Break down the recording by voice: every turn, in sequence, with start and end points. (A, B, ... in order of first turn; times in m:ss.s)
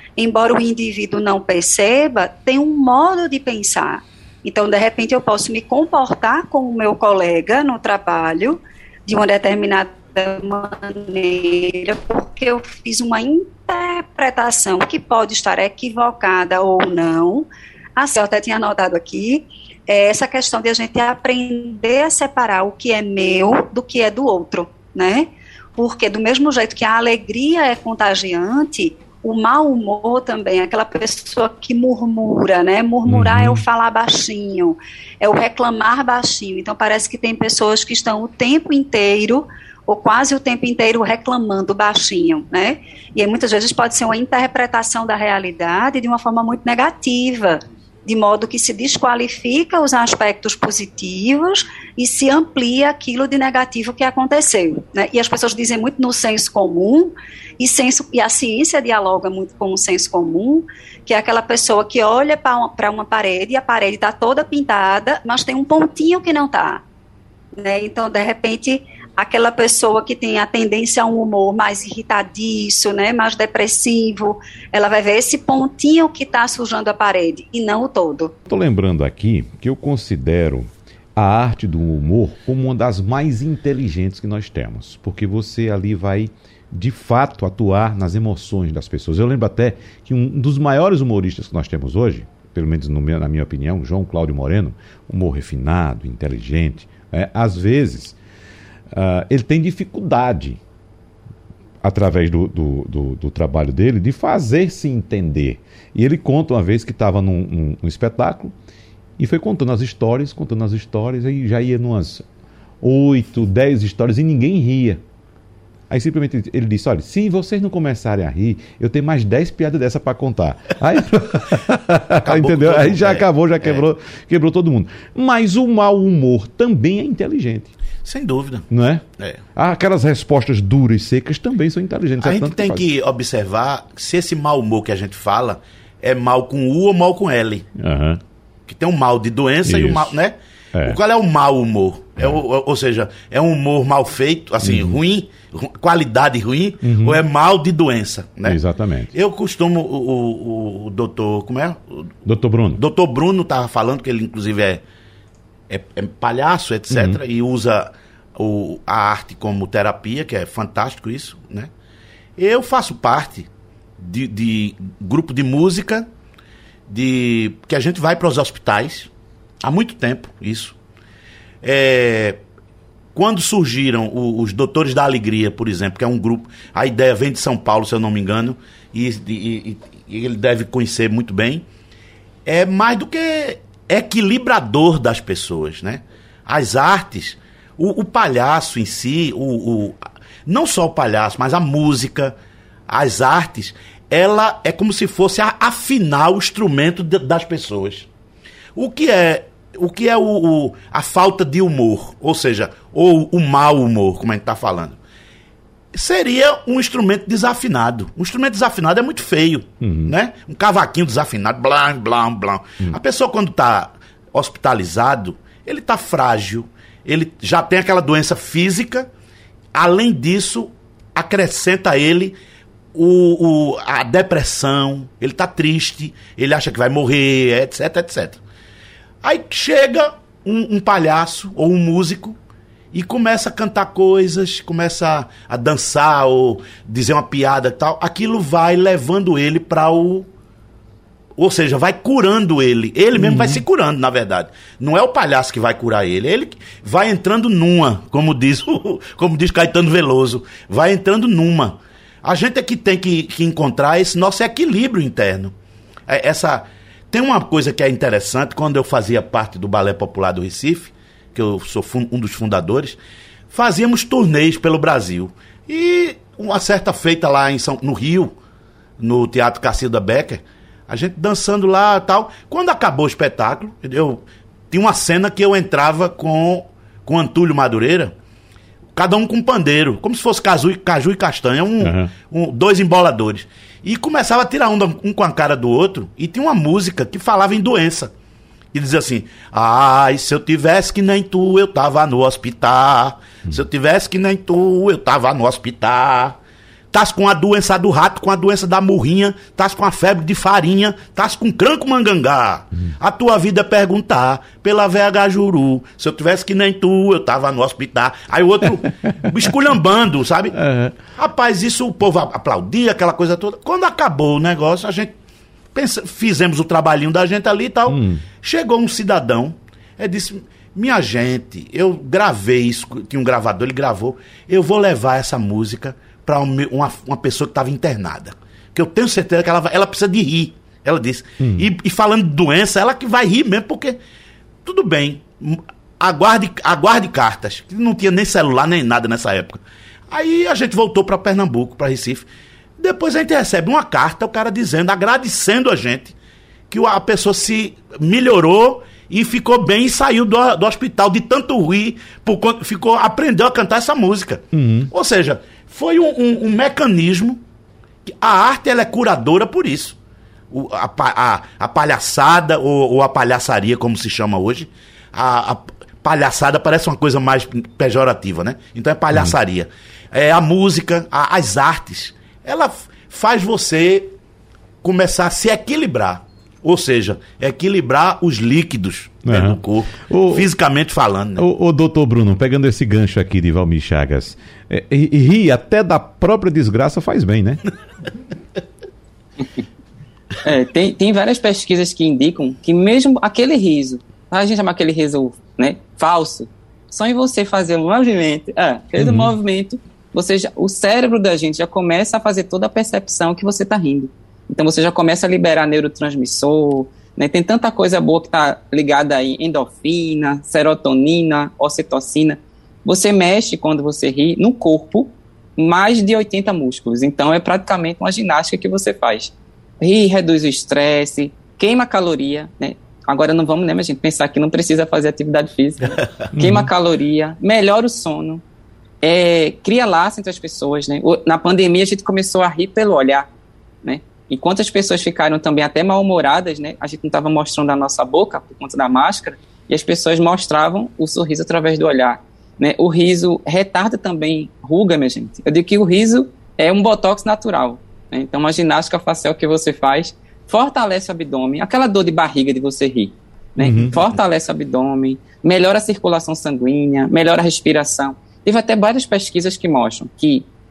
0:00.2-1:06.8 A
0:33.1-0:33.6 B
1:07.6-1:18.3 A
1:18.5-1:38.2 B
1:38.9-1:40.6 B
1:41.8-1:48.5 B
1:49.2-1:52.2 B
1:52.8-1:55.0 B
1:55.9-2:07.7 B
2:02.2-2:03.8 C
2:08.0-2:08.7 C
2:08.7-2:09.0 B
2:09.6-2:12.9 B
2:12.2-2:17.6 C
2:17.7-2:18.2 B
2:18.7-2:28.6 C
2:19.6-2:20.1 B
2:20.7-2:21.0 B
2:24.6-2:25.0 B
2:26.8-2:27.2 B
2:28.4-2:29.1 B
2:29.1-2:32.1 C
2:32.2-2:32.8 B
2:32.7-2:34.8 C
2:35.7-2:41.7 C
2:36.9-2:37.2 B
2:42.4-2:46.1 C
2:46.9-2:49.1 C
2:49.6-2:50.8 C
2:51.6-2:52.4 C
2:53.1-3:01.6 C
3:02.4-3:12.3 C
3:12.9-3:18.1 C
3:18.8-3:25.0 C
3:25.9-3:39.1 C
3:29.8-3:30.1 B
3:39.7-3:42.3 C
3:42.9-3:48.4 C
3:49.2-3:52.4 C
3:52.9-4:00.3 C
4:01.4-4:15.5 C
4:03.2-4:03.6 B
4:16.1-4:23.0 C
4:23.5-4:28.3 C
4:29.0-4:38.1 C
4:38.9-4:48.1 C
4:41.8-4:42.1 B
4:48.7-4:56.4 C
4:56.9-5:10.6 C
5:10.5-5:11.0 B
5:11.2-5:15.1 C
5:15.7-5:34.0 C
5:17.9-5:18.2 B
5:31.4-5:31.7 B
5:34.6-5:42.3 C
5:42.8-5:46.1 C
5:46.7-5:57.4 C
5:54.5-5:54.9 B
5:58.1-6:00.0 C
6:00.5-6:14.1 C
6:14.8-6:21.4 C
6:19.2-6:20.5 B
6:21.4-6:27.6 B
6:30.4-7:08.4 D
6:39.0-6:39.3 B
7:06.3-7:06.7 B
7:09.0-7:13.3 D
7:13.8-7:40.4 D
7:33.6-7:34.0 B